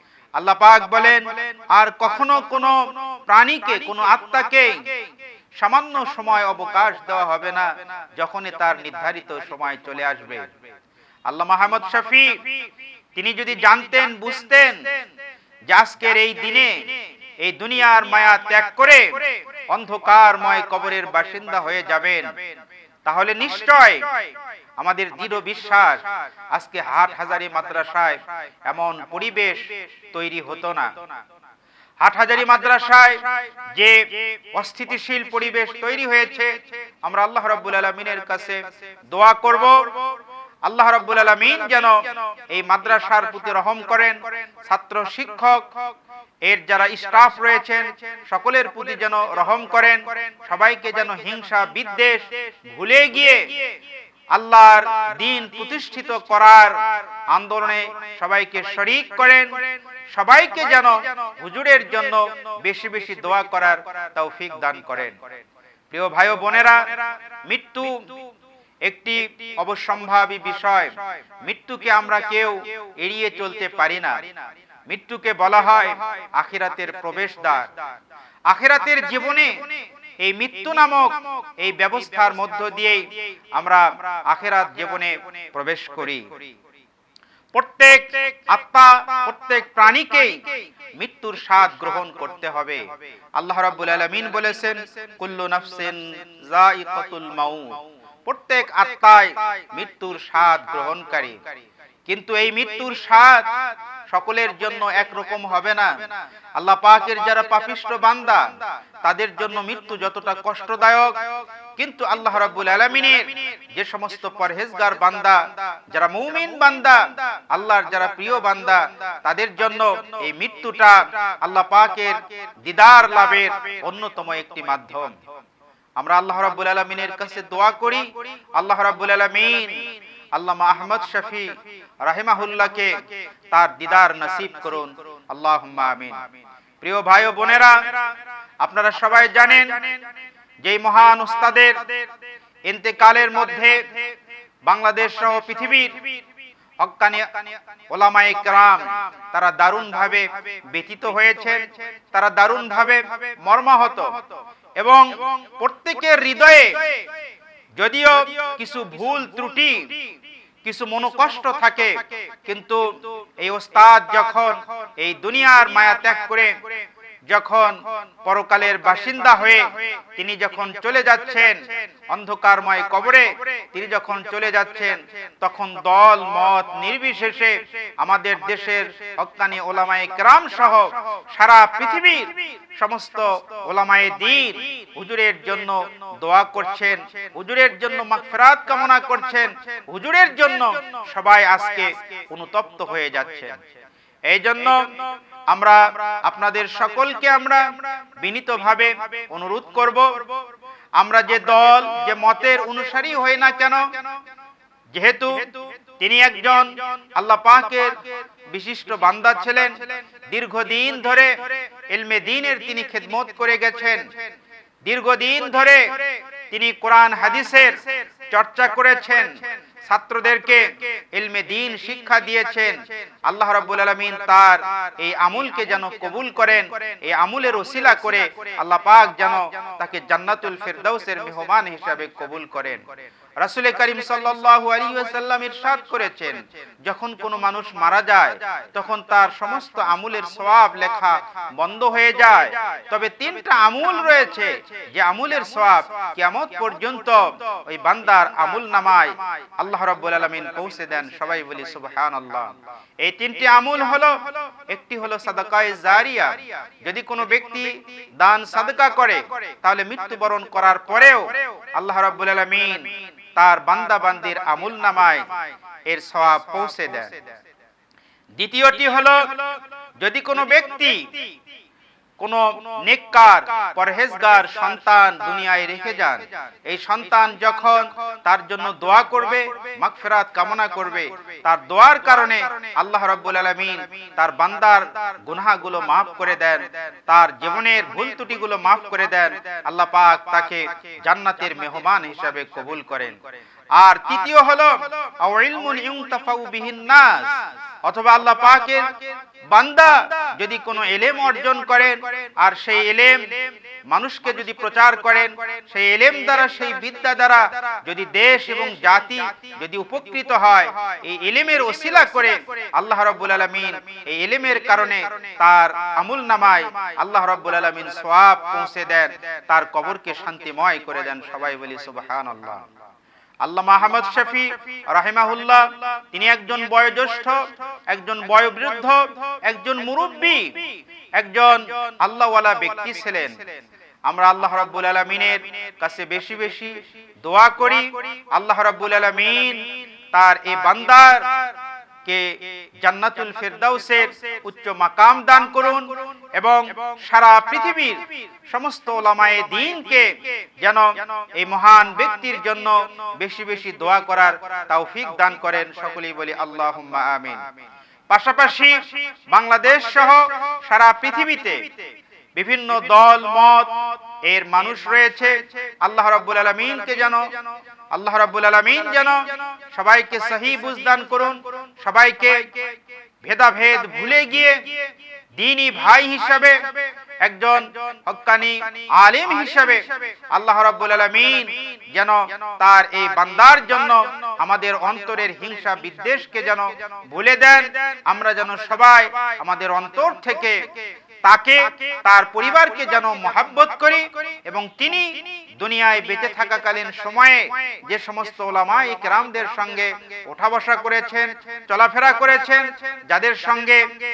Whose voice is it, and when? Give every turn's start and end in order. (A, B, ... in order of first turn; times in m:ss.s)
0:00.4-0:04.9 A
0:05.6-0:10.5 A
0:11.3-0:12.4 A
0:13.2-0:14.9 A
0:15.7-0:16.8 A
0:17.4-0:22.4 A
0:23.1-0:24.3 A
0:24.8-0:30.9 A
0:32.0-0:40.0 A
0:40.6-0:45.7 A
0:46.4-0:53.6 A
0:54.3-0:59.6 A
1:00.1-1:05.4 A
1:05.9-1:08.2 A
1:08.8-1:14.4 A
1:14.9-1:17.8 A
1:18.5-1:26.5 A
1:27.5-1:32.8 A
1:33.4-1:41.4 A
1:42.1-2:05.2 A
2:06.0-2:16.3 A
2:16.8-2:20.0 A
2:20.6-2:22.0 A
2:22.7-2:23.9 A
2:24.6-2:26.1 A
2:26.8-2:34.2 A
2:34.8-2:37.1 A
2:37.8-2:39.9 A
2:40.6-2:46.6 A
2:47.3-3:13.6 A
3:14.3-3:20.2 A
3:21.0-3:23.8 A
3:24.9-3:34.1 A
3:34.8-3:52.9 A
3:53.4-4:25.3 A
4:25.9-4:27.2 A
4:28.4-4:31.2 A
4:32.2-4:53.2 A
4:53.8-5:22.7 A
5:23.4-5:41.5 A
5:42.0-5:57.5 A
5:58.1-6:01.7 A
6:02.4-6:07.3 A
6:07.9-6:14.8 A
6:15.4-6:30.7 A
6:31.2-6:43.9 A